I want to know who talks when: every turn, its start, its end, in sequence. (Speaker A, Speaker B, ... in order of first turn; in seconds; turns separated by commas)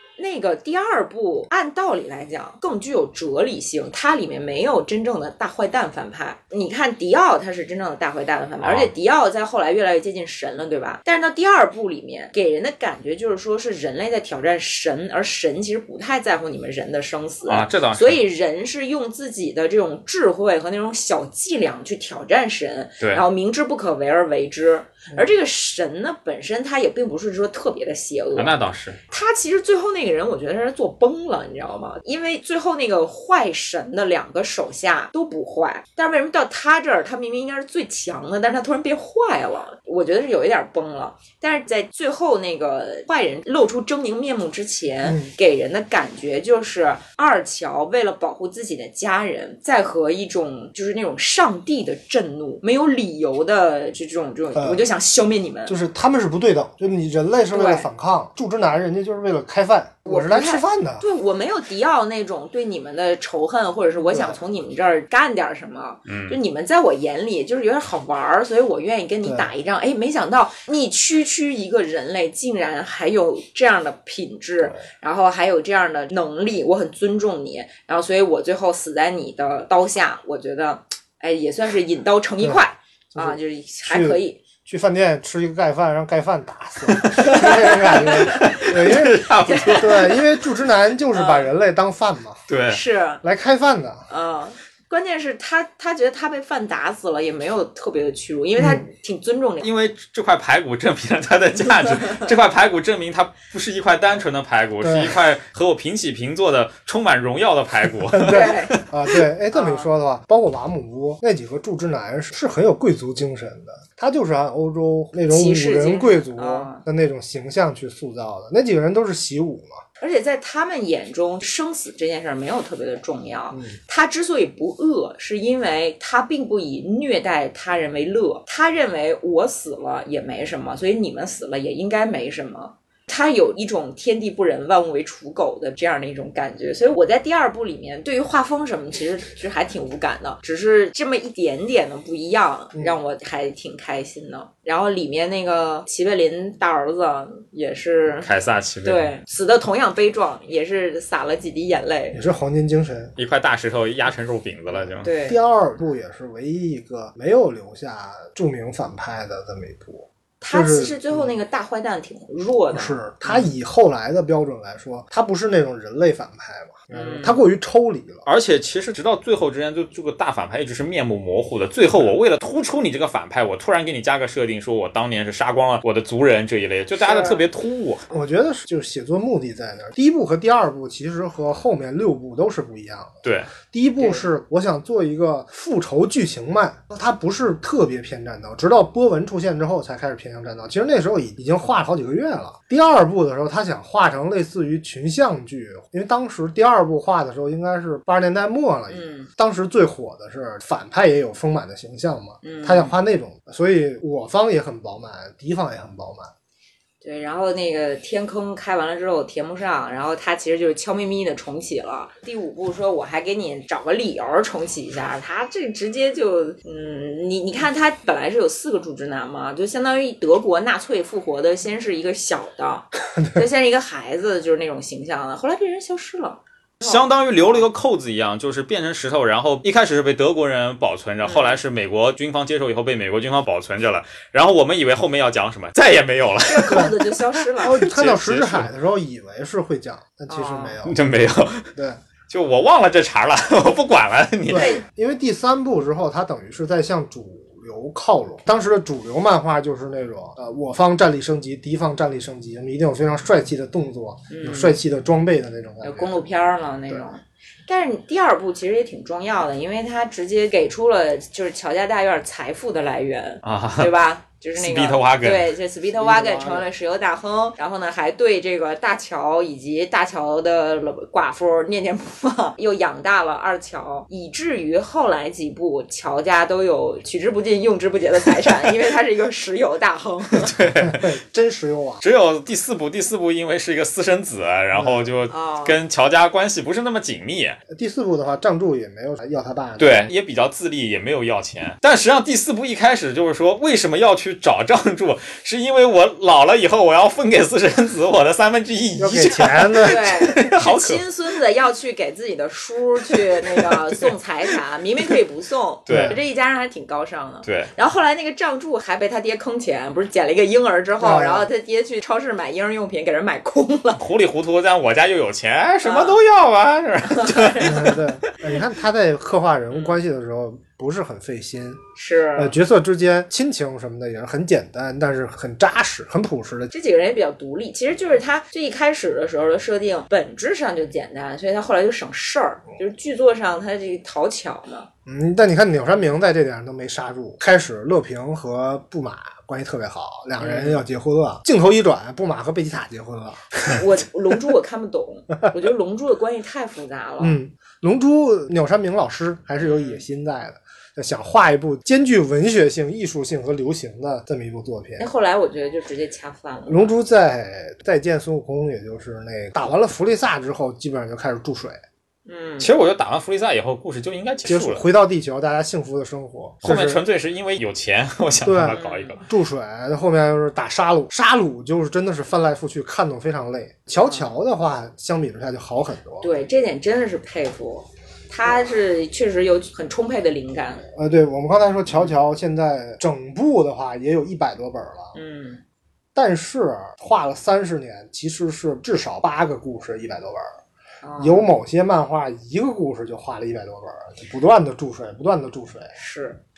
Speaker A: 0.2-55.8, Speaker B: 8.6-8.9, Speaker B: 17.5-18.2, Speaker B: 28.4-29.0, Speaker C: 45.0-45.3, Speaker C: 54.6-54.9, Speaker C: 55.7-61.0, Speaker A: 57.5-57.9, Speaker A: 60.1-84.4, Speaker C: 64.0-64.4, Speaker B: 66.1-66.4, Speaker C: 69.2-69.5, Speaker C: 83.1-92.4, Speaker B: 86.9-90.3, Speaker A: 87.2-88.7, Speaker A: 89.5-90.0, Speaker A: 91.1-91.5, Speaker B: 92.5-92.8, Speaker A: 92.7-93.2, Speaker C: 93.2-94.1, Speaker A: 94.1-99.7, Speaker C: 98.6-98.8, Speaker B: 99.6-109.2, Speaker A: 101.6-102.3, Speaker C: 104.8-105.2, Speaker C: 108.1-119.8, Speaker A: 108.2-108.8, Speaker A: 109.5-109.9, Speaker A: 115.3-116.8, Speaker A: 120.0-148.3, Speaker C: 123.5-123.8, Speaker B: 148.2-149.1, Speaker A: 148.8-152.2, Speaker C: 152.1-153.1, Speaker B: 153.2-155.1, Speaker A: 155.0-155.4, Speaker C: 155.2-161.3, Speaker A: 160.4-163.0, Speaker C: 162.7-168.2, Speaker A: 166.9-167.4, Speaker B: 168.3-178.1, Speaker A: 177.0-177.4, Speaker C: 178.1-206.3, Speaker B: 183.2-183.5, Speaker A: 184.0-184.2, Speaker A: 198.9-199.3, Speaker A: 202.4-202.9, Speaker A: 207.0-227.6, Speaker C: 223.2-223.4, Speaker B: 226.8-238.7, Speaker A: 231.2-231.6, Speaker A: 236.4-237.8, Speaker C: 236.7-237.0, Speaker C: 237.6-241.0, Speaker A: 240.3-240.8, Speaker B: 240.8-241.7, Speaker B: 242.3-244.8, Speaker C: 244.5-256.2, Speaker A: 244.6-244.8, Speaker A: 254.3-254.8, Speaker A: 255.8-280.6, Speaker B: 263.4-263.9, Speaker B: 264.6-265.6, Speaker C: 265.9-266.7, Speaker B: 280.3-281.1, Speaker C: 280.8-282.0, Speaker B: 282.0-287.6, Speaker C: 284.7-285.1, Speaker A: 285.3-285.8, Speaker C: 287.7-290.1, Speaker B: 289.8-301.1, Speaker C: 299.0-300.2, Speaker A: 299.8-314.0, Speaker B: 303.4-304.1, Speaker B: 305.9-306.2, Speaker C: 305.9-306.2, Speaker B: 307.4-307.7, Speaker C: 311.0-311.5, Speaker B: 314.0-318.3, Speaker A: 315.8-316.2, Speaker A: 317.1-317.9, Speaker C: 317.6-321.8, Speaker A: 319.7-320.0, Speaker A: 321.9-322.6, Speaker C: 322.4-326.7, Speaker A: 326.7-334.9, Speaker C: 335.1-343.8, Speaker A: 340.4-340.8, Speaker A: 343.7-347.4, Speaker C: 347.2-355.1, Speaker A: 349.6-350.0, Speaker A: 355.0-356.9, Speaker C: 356.7-361.8, Speaker A: 362.3-362.7, Speaker B: 362.6-364.8, Speaker C: 364.5-367.0, Speaker B: 366.6-369.2, Speaker C: 368.4-376.3, Speaker A: 368.7-369.2, Speaker A: 376.2-380.9, Speaker C: 380.9-385.1, Speaker A: 385.1-385.6, Speaker C: 386.1-390.6, Speaker A: 391.0-391.5, Speaker C: 391.2-395.9, Speaker A: 395.9-396.4